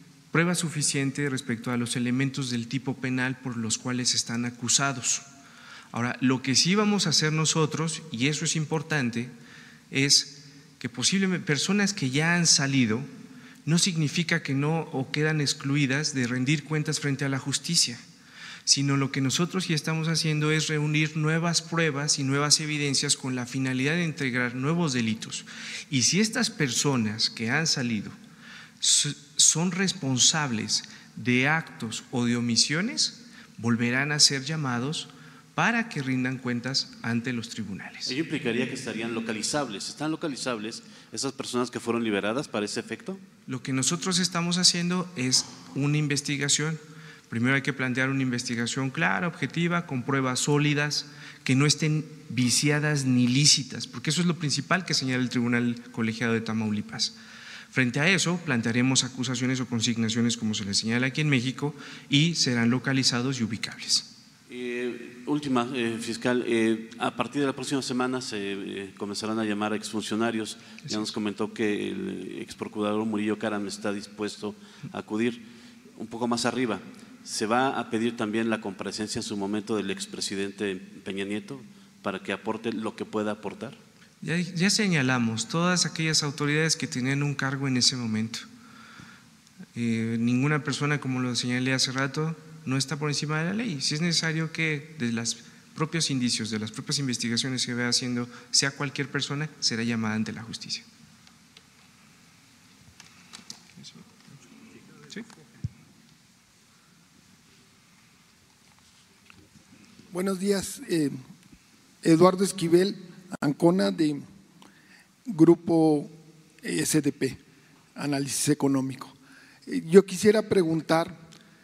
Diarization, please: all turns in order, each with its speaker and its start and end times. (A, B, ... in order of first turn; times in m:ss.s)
0:00.3-0:05.3 A
0:05.9-0:09.3 A
0:09.9-0:13.1 A
0:13.6-0:18.0 A
0:18.6-0:28.2 A
0:28.8-0:38.1 A
0:38.0-0:43.2 B
0:43.5-0:57.2 A
0:57.7-1:04.1 A
1:04.5-1:15.4 B
1:10.8-1:11.1 A
1:16.0-1:23.8 B
1:24.2-1:28.4 A
1:29.7-1:40.8 A
1:43.8-1:44.0 A
1:50.1-1:51.2 C
1:52.0-1:54.2 C
1:55.3-1:57.4 C
1:58.0-1:59.1 C
1:59.7-2:01.2 C